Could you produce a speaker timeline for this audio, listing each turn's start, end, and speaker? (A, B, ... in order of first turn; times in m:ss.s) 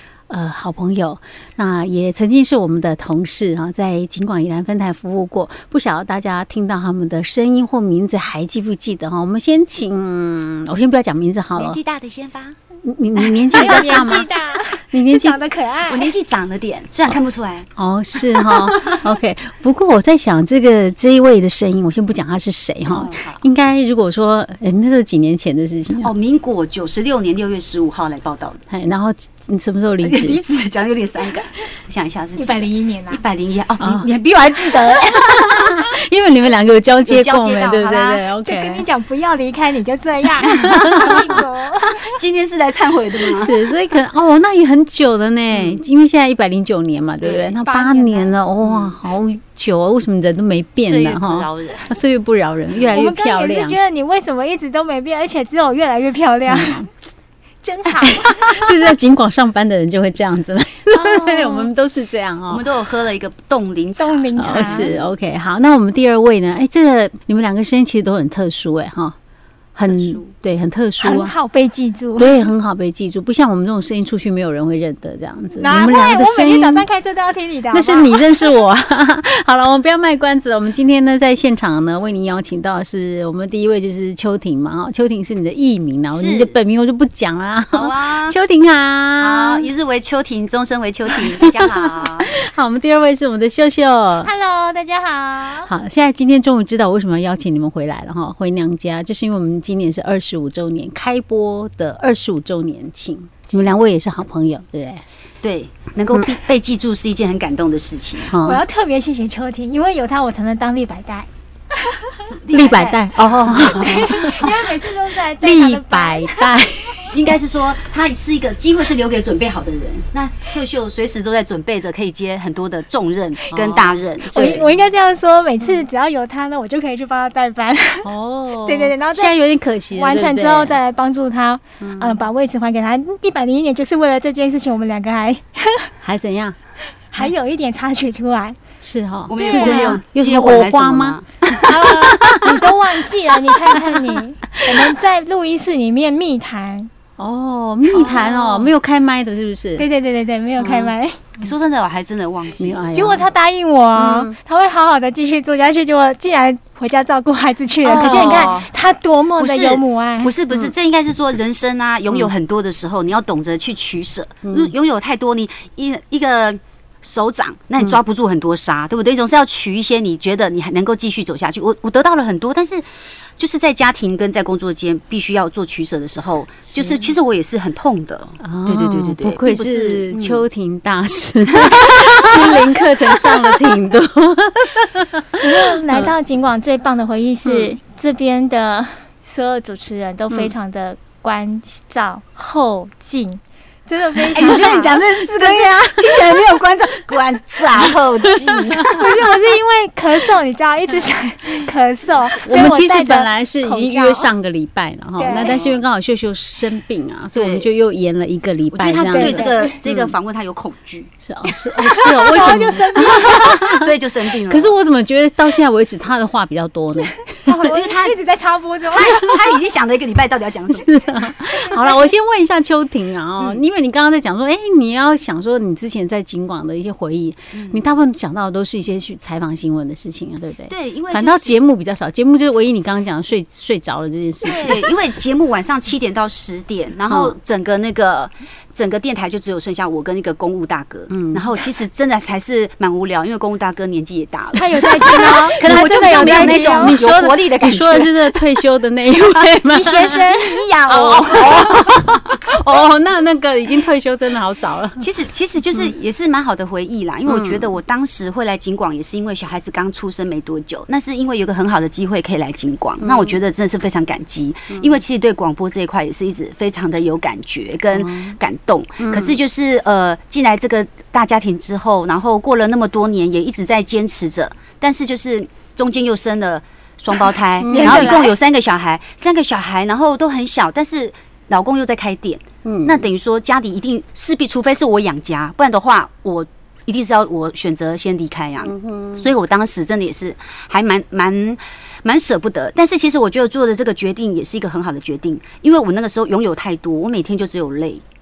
0:00.3-0:11.8 A
0:11.5-0:12.6 B
0:12.8-0:14.3 A
0:13.5-0:16.1 C
0:14.9-0:15.4 A
0:15.9-0:17.7 B
0:17.8-0:26.1 A
0:22.9-0:23.4 B
0:26.0-0:28.6 B
0:28.7-0:30.4 A
0:30.0-0:35.8 B
0:32.4-0:33.2 C
0:33.8-0:38.8 A
0:37.0-0:38.2 B
0:38.4-0:42.1 C
0:40.4-0:41.2 B
0:40.8-0:41.1 A
0:42.0-0:43.5 B
0:43.4-0:53.8 A
0:45.5-0:45.8 B
0:47.2-0:48.3 C
0:48.6-0:49.0 B
0:50.8-0:51.9 B
0:52.9-0:56.8 C
0:56.4-0:56.9 A
0:57.6-0:58.7 C
0:58.0-1:02.6 A
1:00.9-1:01.7 C
1:02.5-1:05.0 B
1:04.0-1:04.9 C
1:04.4-1:09.2 A
1:09.7-1:11.3 A
1:09.8-1:10.3 B
1:11.0-1:12.5 C
1:12.2-1:16.8 A
1:15.6-1:18.2 C
1:17.7-1:29.7 A
1:26.1-1:26.5 B
1:27.7-1:28.4 B
1:29.2-1:32.3 B
1:31.2-1:34.3 A
1:34.2-1:35.7 C
1:35.6-1:45.0 A
1:45.4-1:48.3 B
1:48.3-1:48.6 A
1:48.4-1:51.3 C
1:52.3-1:54.5 B
1:52.5-1:54.6 A
1:53.7-1:56.6 C
1:55.4-1:57.1 A
1:57.1-2:04.6 B
2:03.5-2:04.7 A
2:04.3-2:08.1 C
2:08.0-2:10.8 A
2:08.6-2:09.3 C
2:09.9-2:15.9 C
2:11.8-2:12.2 A
2:16.0-2:16.6 A
2:17.1-2:18.6 C
2:18.8-2:22.5 A
2:19.3-2:21.3 B
2:19.4-2:20.0 C
2:21.6-2:26.9 C
2:22.2-2:22.5 B
2:27.2-2:29.9 A
2:27.9-2:28.6 B
2:28.0-2:28.6 C
2:29.8-2:31.2 C
2:30.6-2:30.9 A
2:31.4-2:32.9 B
2:32.6-2:33.2 A
2:32.9-2:40.3 C
2:33.9-2:34.3 A
2:37.8-2:38.7 B
2:38.0-2:38.4 A
2:39.4-2:52.8 B
2:44.4-2:44.7 A
2:53.4-3:00.4 B
2:56.8-2:57.1 A
2:58.4-3:06.1 A
3:01.7-3:02.6 B
3:05.4-3:15.0 C
3:14.3-3:19.0 B
3:14.3-3:14.6 A
3:18.5-3:19.0 A
3:18.9-3:24.3 C
3:22.4-3:30.1 A
3:25.2-3:25.6 C
3:25.4-3:25.8 B
3:27.3-3:27.7 B
3:28.7-3:31.1 B
3:29.0-3:29.8 C
3:31.2-3:33.9 A
3:31.8-3:33.6 C
3:33.1-3:34.7 B
3:34.4-3:37.2 A
3:37.4-3:38.2 B
3:37.5-3:39.3 C
3:38.9-3:40.9 B
3:40.7-3:54.8 A
3:47.5-3:48.0 B
3:50.7-3:51.6 B
3:54.4-4:08.3 B
4:01.1-4:01.4 A
4:04.5-4:07.0 C
4:05.0-4:10.2 A
4:09.7-4:10.5 C
4:09.8-4:12.2 B
4:10.9-4:15.0 A
4:15.0-4:58.0 B
4:17.3-4:17.6 A
4:23.0-4:23.4 A
4:27.9-4:28.4 A
4:29.0-4:29.4 A
4:37.6-4:38.2 A
4:37.7-4:38.3 C
4:42.6-4:43.0 A
4:48.6-4:49.3 A